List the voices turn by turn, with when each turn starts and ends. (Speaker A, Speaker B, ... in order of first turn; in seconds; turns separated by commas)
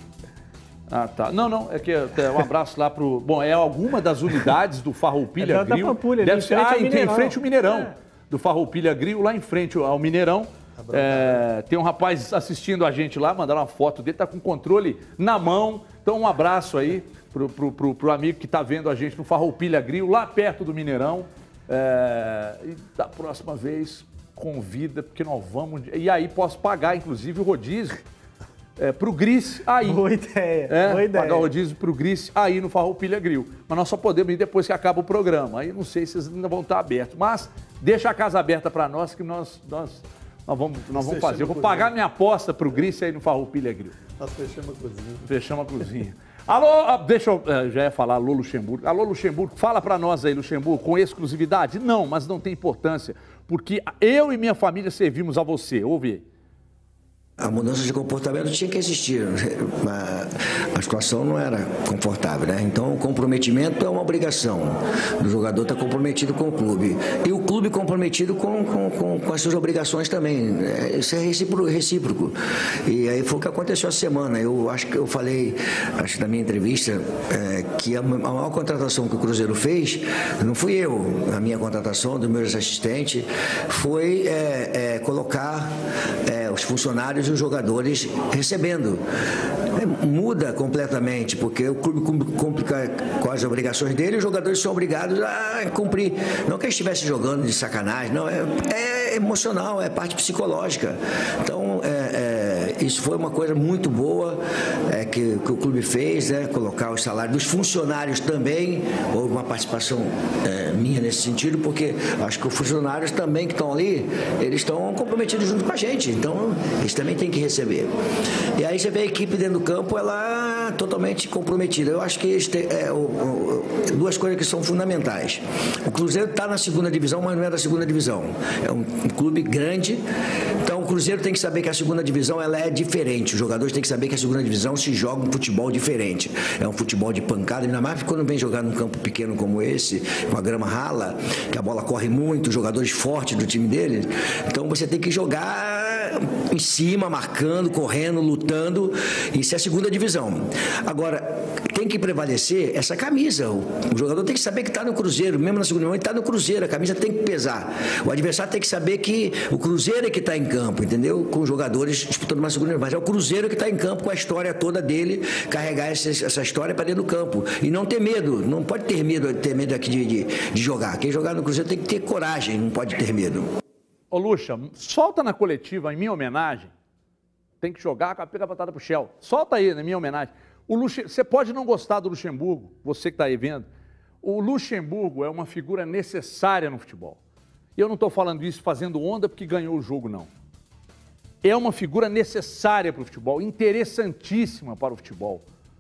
Speaker A: 0.9-28.0, Speaker B: 5.4-7.9, Speaker C: 10.8-11.4, Speaker A: 28.8-30.0, Speaker B: 29.8-31.5, Speaker A: 30.7-44.0, Speaker C: 40.9-41.9, Speaker C: 44.2-45.3, Speaker A: 45.2-56.2, Speaker D: 57.4-89.0, Speaker D: 89.7-117.9, Speaker D: 118.6-130.0, Speaker D: 130.6-173.5, Speaker A: 174.1-176.7, Speaker A: 177.6-183.7, Speaker A: 184.2-187.2, Speaker A: 187.8-190.3, Speaker A: 191.4-195.4